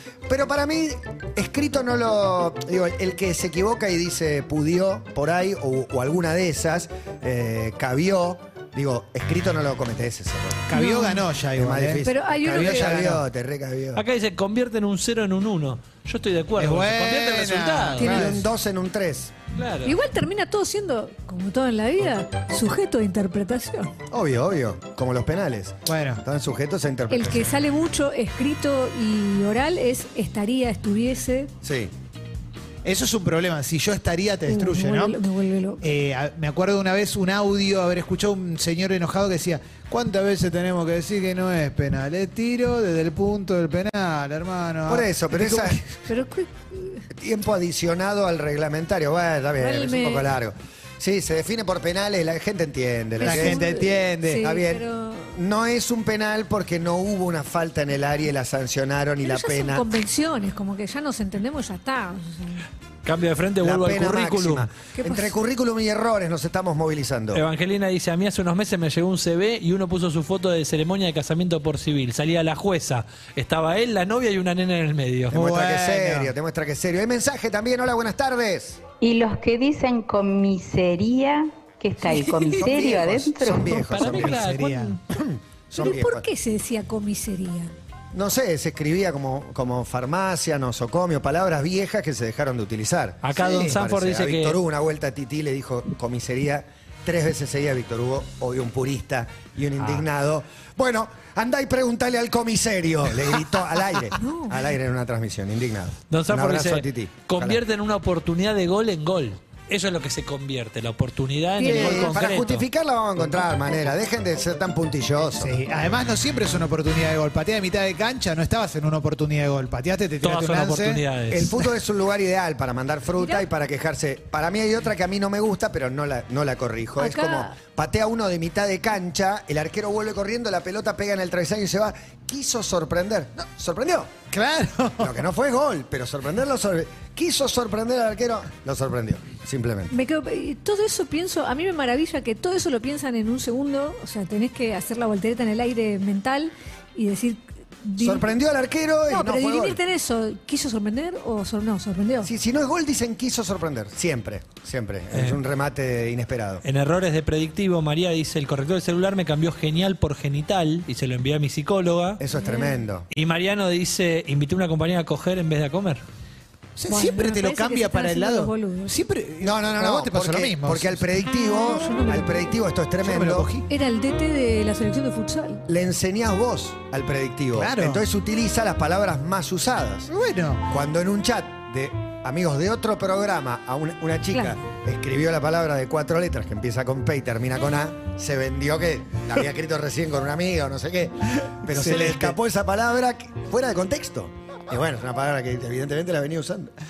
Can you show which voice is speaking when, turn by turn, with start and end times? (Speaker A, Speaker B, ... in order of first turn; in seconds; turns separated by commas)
Speaker A: 0.3-10.7, Speaker B: 10.7-13.2, Speaker C: 10.7-11.3, Speaker A: 11.6-14.0, Speaker C: 12.1-13.0, Speaker D: 13.9-18.1, Speaker B: 16.6-18.4, Speaker C: 18.0-18.4, Speaker A: 18.0-19.3, Speaker D: 19.6-19.9, Speaker C: 19.9-23.9, Speaker A: 24.1-27.6, Speaker B: 25.9-26.2, Speaker C: 27.1-31.5, Speaker A: 31.6-31.9, Speaker B: 32.9-35.2, Speaker C: 34.5-35.9, Speaker B: 35.8-45.7, Speaker A: 44.9-45.8, Speaker C: 46.0-47.1, Speaker A: 47.1-53.7, Speaker C: 49.6-50.3, Speaker C: 53.2-55.4, Speaker B: 53.2-54.4, Speaker A: 54.3-59.9, Speaker C: 59.2-62.6, Speaker D: 63.0-64.7, Speaker A: 63.6-67.4, Speaker C: 65.0-65.3, Speaker D: 67.3-75.3, Speaker A: 75.3-78.8, Speaker B: 75.3-76.3, Speaker E: 79.0-83.9, Speaker D: 82.4-82.7, Speaker A: 82.6-84.4, Speaker D: 83.8-85.0, Speaker B: 84.0-85.0, Speaker A: 85.1-86.3, Speaker C: 85.7-87.7, Speaker A: 88.1-107.6, Speaker D: 93.2-94.6, Speaker D: 99.8-100.1, Speaker C: 104.2-104.6, Speaker D: 106.1-112.7, Speaker C: 111.6-112.4, Speaker A: 111.6-115.6, Speaker B: 115.4-121.0, Speaker D: 120.2-121.5, Speaker A: 121.3-134.1, Speaker C: 123.2-123.5, Speaker C: 127.0-127.5, Speaker B: 134.3-135.2, Speaker A: 135.0-139.9, Speaker C: 139.9-148.3, Speaker A: 148.0-149.8, Speaker C: 149.1-152.3, Speaker A: 152.2-156.6, Speaker D: 155.1-155.4, Speaker D: 156.6-162.2, Speaker A: 162.2-163.1, Speaker C: 162.3-162.8, Speaker D: 163.1-166.0, Speaker B: 166.8-171.1, Speaker C: 166.9-169.0, Speaker A: 169.4-173.5, Speaker C: 171.3-172.5, Speaker B: 173.0-173.7, Speaker C: 173.7-175.6, Speaker A: 175.7-180.1, Speaker B: 177.5-178.0, Speaker B: 180.1-180.6, Speaker A: 180.7-196.7, Speaker B: 191.7-192.4